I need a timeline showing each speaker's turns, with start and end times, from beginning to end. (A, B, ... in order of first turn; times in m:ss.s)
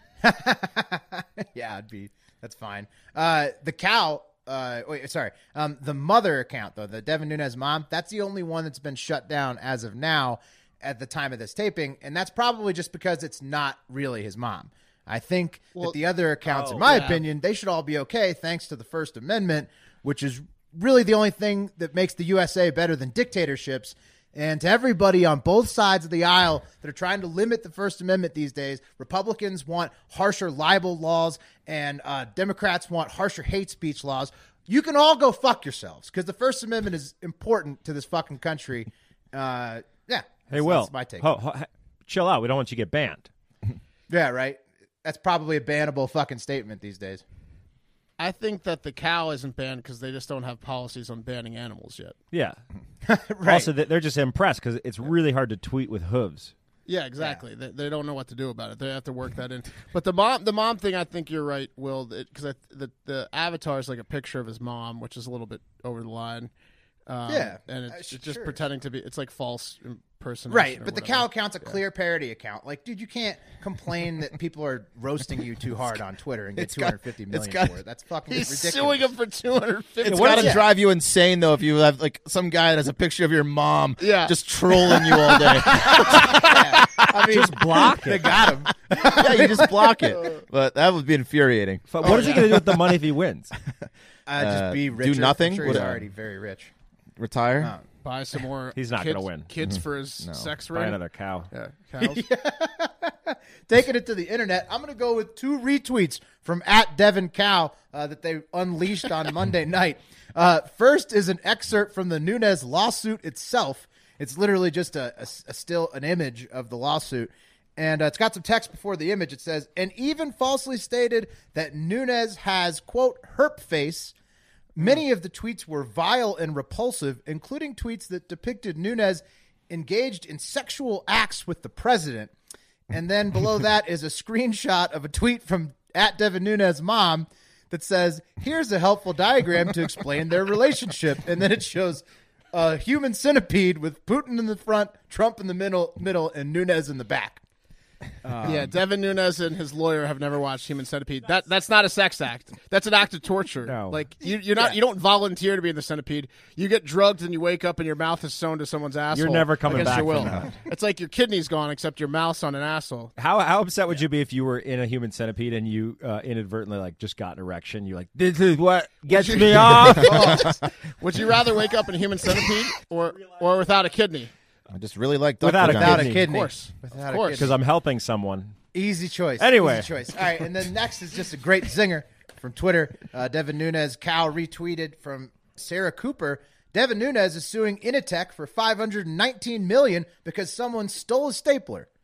0:00.2-0:41.3 A
0:16.5-0:17.1 B
0:16.8-0:17.2 C
0:40.5-0:43.3 B
0:44.1-0:47.2 A
0:48.2-0:52.2 C
0:52.3-0:52.6 B
0:53.1-0:53.7 A
0:53.4-0:56.5 B
0:56.9-1:06.5 C
1:07.1-1:11.8 C
1:07.3-1:08.6 A
1:10.5-1:19.1 A
1:16.6-1:17.8 D
1:18.3-1:20.6 C
1:20.0-1:26.4 D
1:20.1-1:20.6 B
1:24.0-1:24.4 C
1:25.0-1:25.7 C
1:25.8-1:30.2 A
1:26.2-1:28.5 B
1:29.0-1:32.6 D
1:31.9-1:33.5 B
1:32.0-1:32.4 C
1:32.0-1:32.4 A
1:34.3-1:36.7 A
1:34.4-1:36.0 D
1:37.2-1:37.7 D
1:38.0-1:41.0 C
1:38.8-1:39.5 B
1:39.7-1:40.5 D
1:40.7-1:41.5 B
1:41.5-1:42.2 C
1:42.0-2:04.1 A
2:04.8-2:12.3 A
2:12.9-2:27.4 A
2:28.2-2:28.7 A
2:28.4-2:43.1 C
2:33.6-2:34.0 B
2:39.1-2:40.5 B
2:43.2-2:50.5 B
2:49.1-2:54.3 C
2:54.7-2:56.1 D
2:55.4-2:56.3 B
2:55.6-2:57.5 A
2:56.2-2:57.5 C
2:57.4-2:58.6 B
2:58.7-3:11.9 A
2:59.4-2:59.9 B